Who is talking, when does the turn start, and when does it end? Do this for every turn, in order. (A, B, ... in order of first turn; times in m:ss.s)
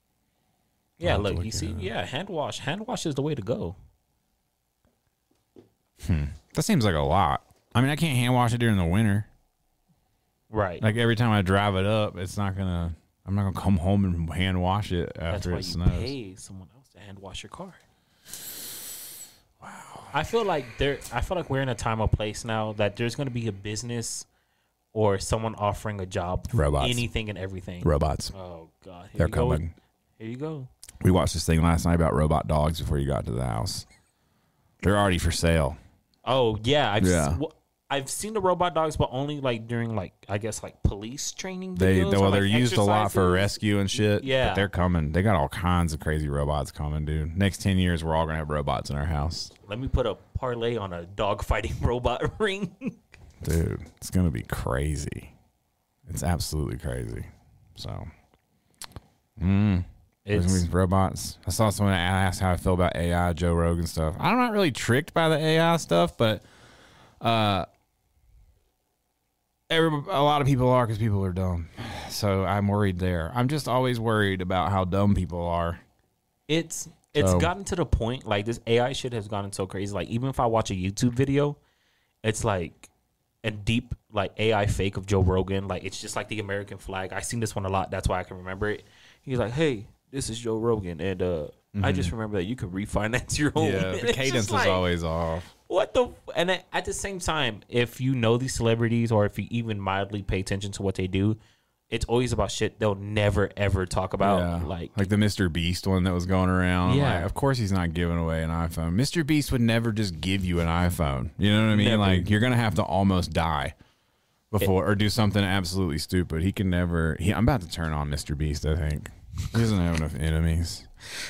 0:01.0-0:03.8 A
0:01.0-0:01.9 B
0:06.0-0:09.3 B
0:10.5-0:10.9 A
0:10.8-0:16.1 B
0:15.3-0:17.8 A
0:19.6-0:20.1 B
0:20.1-0:24.3 A
0:24.9-0:29.6 A
0:26.5-0:27.0 B
0:27.8-0:28.3 B
0:29.2-0:29.7 B
0:30.2-0:30.7 A
0:31.0-0:33.8 B
0:34.8-0:35.8 B
0:36.2-0:44.7 A
0:37.0-0:37.4 B
0:41.8-0:49.5 B
0:49.6-0:53.0 A
0:53.4-0:55.3 B
0:56.0-0:58.1 B
0:59.4-1:06.4 B
1:00.2-1:00.7 A
1:07.2-1:07.6 B
1:09.7-1:15.8 B
1:16.5-1:21.6 A
1:17.2-1:17.5 B
1:22.2-1:22.9 A
1:23.4-1:34.8 A
1:31.7-1:32.1 B
1:33.6-1:35.5 B
1:35.7-1:41.4 A
1:41.9-1:45.1 A
1:44.2-1:53.7 B
1:46.8-1:47.3 A
1:51.7-1:52.3 A
1:54.5-2:00.9 B